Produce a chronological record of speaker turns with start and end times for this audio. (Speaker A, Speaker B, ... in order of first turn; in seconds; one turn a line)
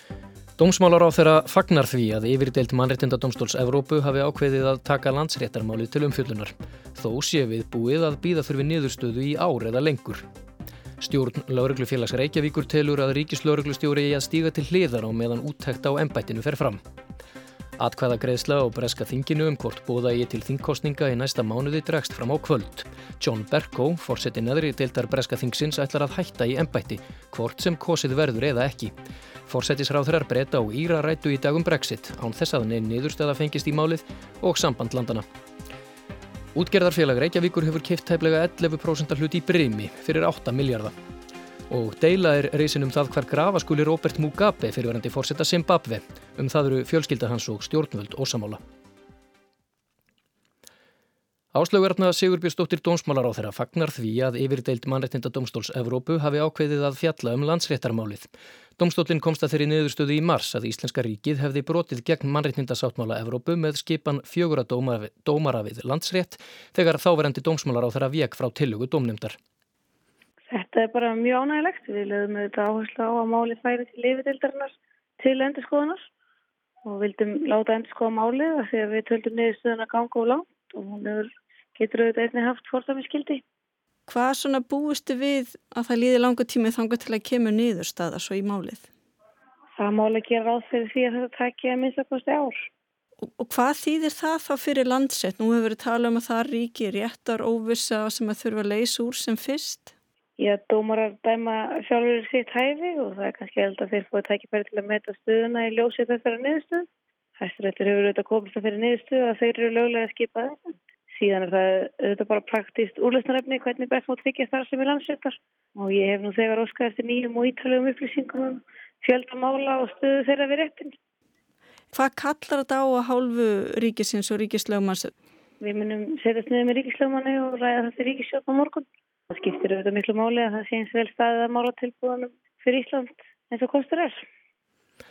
Speaker A: 0.6-10.3
Speaker A: 11.0-16.8
Speaker A: 17.8-28.9
Speaker A: 29.5-35.3
Speaker A: 36.5-41.0
Speaker A: 41.7-48.6
Speaker A: 51.5-69.4
Speaker B: 70.5-76.1
Speaker B: 76.8-83.4
Speaker C: 84.1-88.9
Speaker B: 89.8-92.6
Speaker C: 93.2-99.9
Speaker B: 100.4-121.0
Speaker C: 121.9-125.1
Speaker B: 125.6-134.2